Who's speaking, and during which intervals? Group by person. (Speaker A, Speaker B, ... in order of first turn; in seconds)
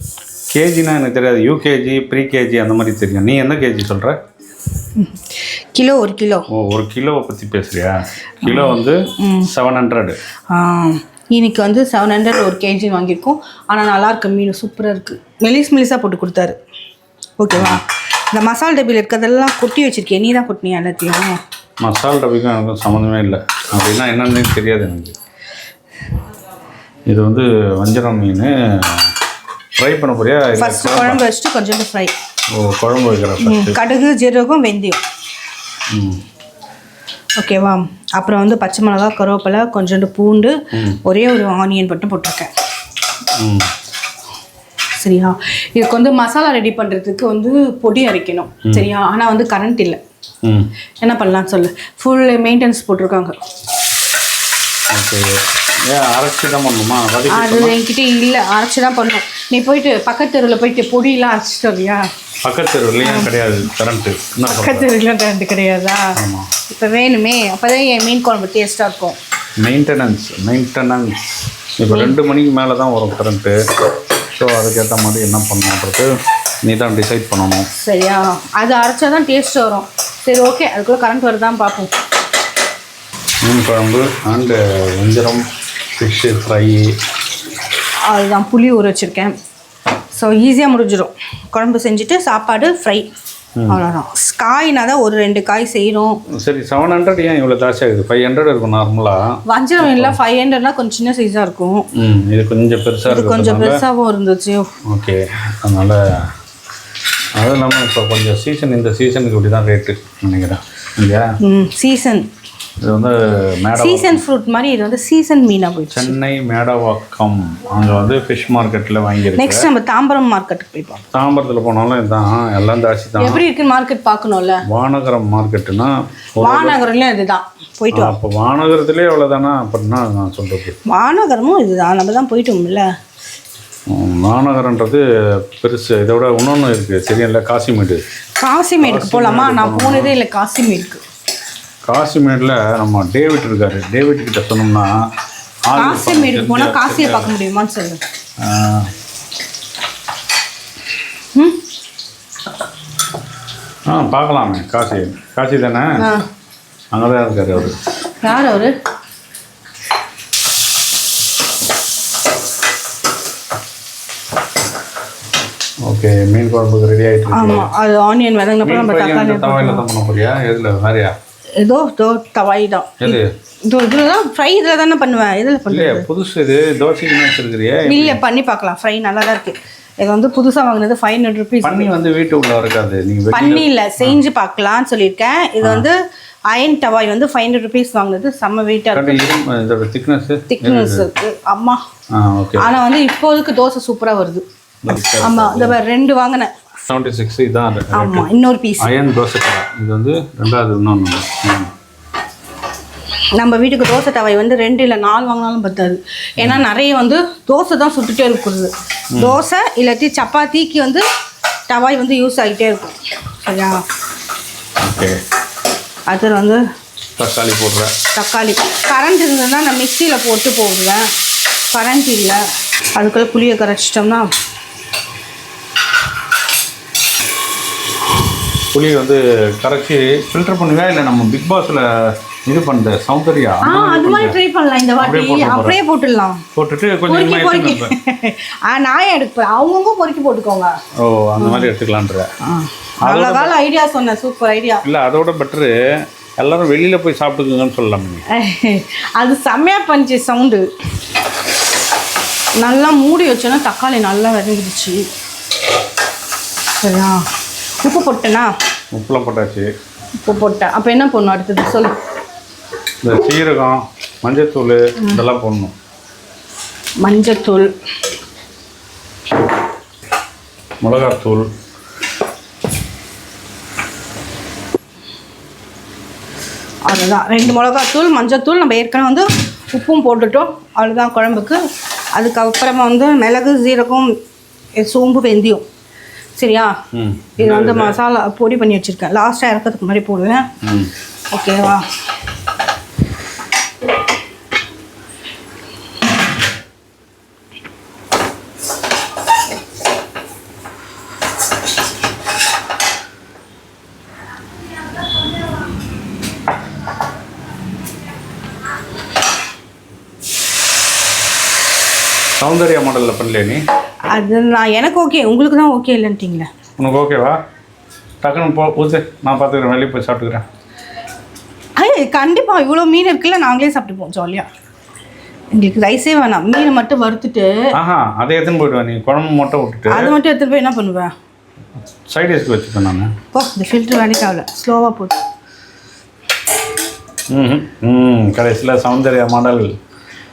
Speaker A: 0.5-4.1, 6.5-10.2, 17.5-17.8, 21.8-25.1, 27.1-29.1, 29.8-31.2, 32.5-33.8, 35.9-36.2, 40.7-41.0, 43.4-43.7, 50.4-50.7, 54.9-57.7, 62.4-64.9, 66.2-66.5, 69.6-71.2, 71.8-73.6, 74.3-76.1, 76.6-77.7, 83.4-85.4, 86.0-86.8, 96.4-100.2, 102.0-103.8, 104.9-106.0, 107.4-111.3, 112.8-114.2, 115.9-119.7, 121.1-123.4, 124.7-126.8, 127.9-130.8, 133.9-138.0, 138.8-140.1, 141.8-144.9, 145.7-147.3, 148.4-148.9, 153.9-156.0, 156.9-157.8, 165.8-167.7, 168.6-171.1, 173.0-173.3, 175.7-178.2, 181.6-184.2, 185.6-185.9, 188.9-191.1, 192.1-192.7, 194.8-195.8, 196.9-198.3, 198.8-201.7, 209.1-209.4, 214.8-215.2, 217.2-217.9, 228.7-231.8, 232.5-234.3, 235.0-235.8, 236.5-237.9, 241.0-242.3, 243.0-243.5, 244.8-245.7, 246.4-248.2, 258.9-259.7, 263.0-265.7, 270.8-271.4, 286.9-288.0, 290.6-290.9, 312.4-313.6, 316.8-317.4, 318.2-320.4, 327.7-330.1, 332.1-333.1, 337.3-339.7
Speaker B: 4.9-6.5, 8.4-9.5, 10.5-16.6, 17.4-21.4, 30.6-32.1, 33.4-35.0, 37.4-42.5, 45.0-50.0, 51.0-53.3, 57.3-62.0, 63.0-63.3, 64.5-66.0, 66.7-69.2, 71.9-72.1, 77.8-81.9, 88.1-89.3, 90.1-93.1, 93.7-96.2, 99.5-101.9, 103.1-104.7, 111.4-112.3, 113.7-116.2, 119.3-121.0, 123.2-124.6, 126.4-128.1, 130.8-132.9, 138.4-141.0, 145.8-148.0, 156.0-156.2, 158.2-158.7, 167.3-169.8, 171.6-176.1, 177.8-181.9, 183.3-186.0, 186.5-189.2, 190.5-191.8, 192.6-194.4, 195.2-196.5, 197.9-198.9, 203.3-211.0, 211.7-213.8, 216.1-216.6, 218.1-221.1, 221.7-222.4, 222.9-224.3, 233.6-236.4, 237.1-240.7, 241.4-241.7, 242.4-244.8, 248.3-250.7, 252.6-255.0, 256.8-257.2, 257.8-258.5, 260.2-261.9, 267.0-267.7, 276.9-281.6, 282.1-284.1, 284.8-285.6, 286.4-286.7, 287.4-290.5, 291.3-291.8, 314.1-316.5, 321.8-324.5, 325.5-327.7, 329.9-331.1, 333.3-335.2